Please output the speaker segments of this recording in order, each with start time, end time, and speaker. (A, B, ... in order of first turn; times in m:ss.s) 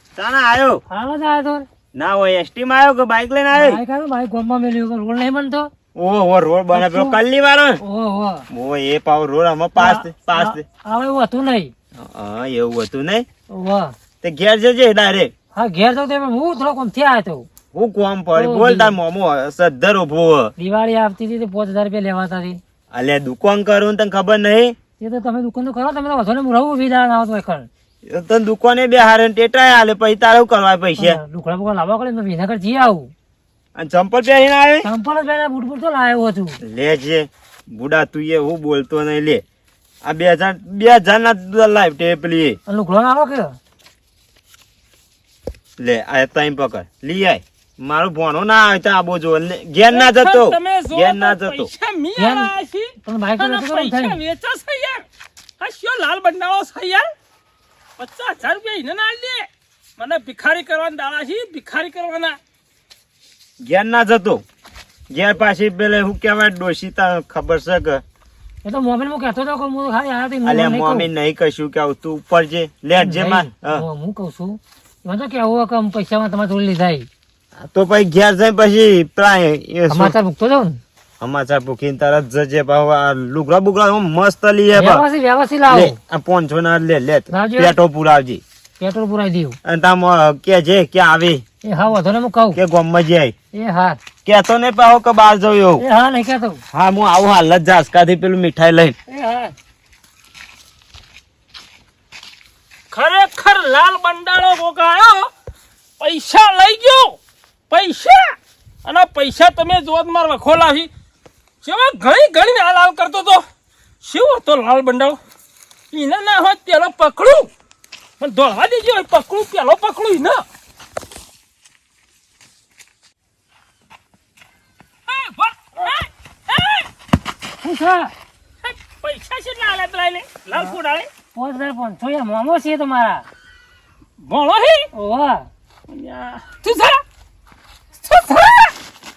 0:00.2-0:00.8 A
0:00.9-0:01.7 B
0:02.0-0:03.8 A
0:03.5-0:05.7 B
0:06.0-0:07.8 A
0:06.7-0:07.2 B
0:07.8-0:08.4 B
0:08.5-0:10.6 A
0:09.8-0:11.7 B
0:12.0-0:13.3 A
0:13.5-0:14.0 B
0:14.2-0:15.3 A
0:15.6-0:17.5 B
0:17.7-0:20.5 A
0:18.4-0:18.9 B
0:20.6-0:22.6 B
0:22.9-0:24.8 A
0:25.0-0:27.7 B
0:28.1-0:31.2 A
0:31.0-0:33.1 B
0:33.8-0:34.9 A
0:34.8-0:36.6 B
0:36.6-0:39.4 A
0:40.0-0:42.6 A
0:42.7-0:43.6 B
0:45.8-0:51.7 A
0:49.9-0:55.0 C
0:52.2-0:52.5 B
0:53.0-0:54.2 B
0:55.6-0:57.1 C
0:58.0-1:02.4 C
1:03.6-1:04.4 A
1:05.1-1:08.0 A
1:08.6-1:11.1 B
1:10.4-1:13.8 A
1:13.0-1:17.1 B
1:17.6-1:20.2 A
1:19.9-1:20.8 B
1:21.2-1:25.1 A
1:24.8-1:26.0 B
1:25.7-1:28.4 A
1:27.3-1:27.7 B
1:28.8-1:29.6 B
1:29.6-1:31.4 A
1:31.6-1:32.6 B
1:32.5-1:33.4 A
1:33.5-1:34.0 B
1:34.2-1:35.8 A
1:35.8-1:36.6 B
1:36.7-1:39.0 A
1:39.1-1:39.6 B
1:42.9-1:45.3 C
1:46.0-1:47.2 C
1:47.7-1:50.9 C
1:51.6-1:53.4 C
1:54.0-1:55.2 C
1:55.9-1:57.5 C
1:58.2-2:00.4 C
2:05.1-2:06.9 C
2:07.6-2:08.1 B
2:08.6-2:11.1 C
2:11.3-2:13.3 B
2:14.2-2:14.9 C
2:14.9-2:15.5 B
2:15.9-2:17.0 C
2:18.0-2:18.7 C